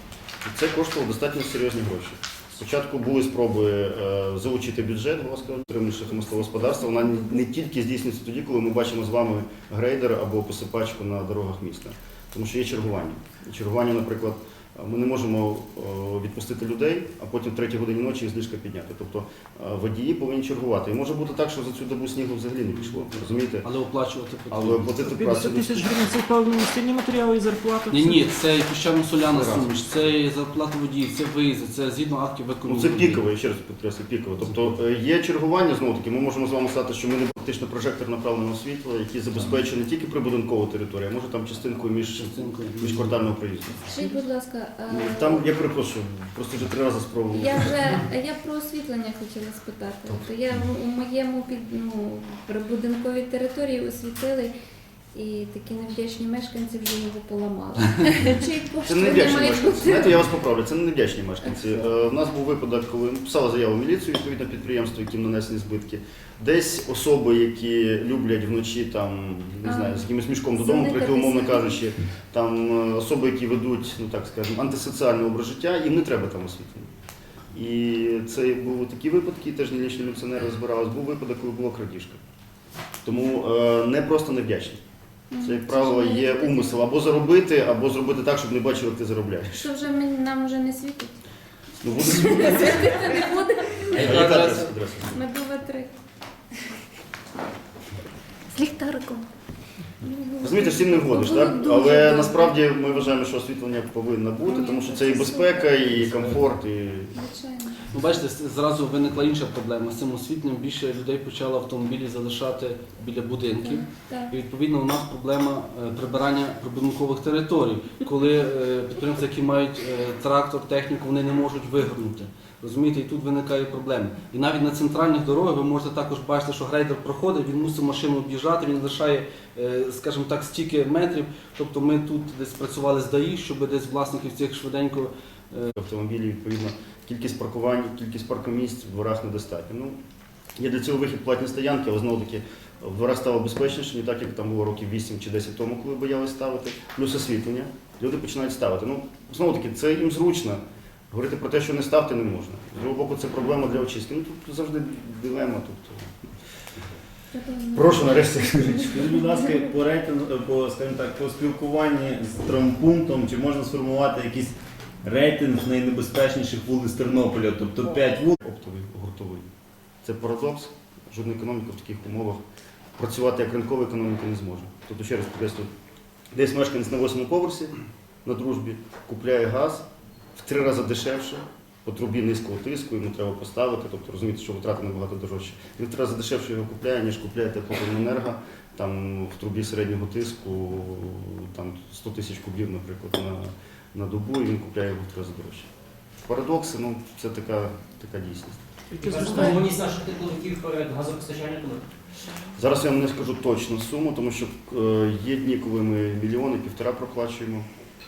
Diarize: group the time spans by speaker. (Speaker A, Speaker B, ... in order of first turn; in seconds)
Speaker A: 0.4-23.7, 24.5-25.9, 29.2-29.8, 32.7-43.9, 44.9-48.0, 58.9-76.9, 77.5-82.2, 83.0-84.8, 85.4-89.7, 91.8-93.2, 93.8-95.2, 100.4-107.2, 135.8-140.0, 140.6-156.2, 157.7-159.1, 168.4-169.5, 170.0-172.4, 173.0-175.7, 176.3-195.7, 196.2-198.6, 202.6-207.7
Speaker B: 23.6-24.9, 27.9-33.2, 34.4-34.7, 42.1-43.2, 94.0-94.7, 106.0-106.4, 107.9-135.7
Speaker C: 25.0-28.3, 198.9-199.7
Speaker D: 43.9-45.5, 47.4-54.5, 55.1-60.2, 69.7-70.0, 70.5-71.8, 85.3-86.8, 89.6-91.2, 91.9-94.5, 95.1-95.9, 98.5-99.3, 100.0-102.9, 104.5-105.9, 107.2-107.8, 113.6-114.3, 157.3-159.6
Speaker E: 158.8-168.4
Speaker F: 199.0-201.8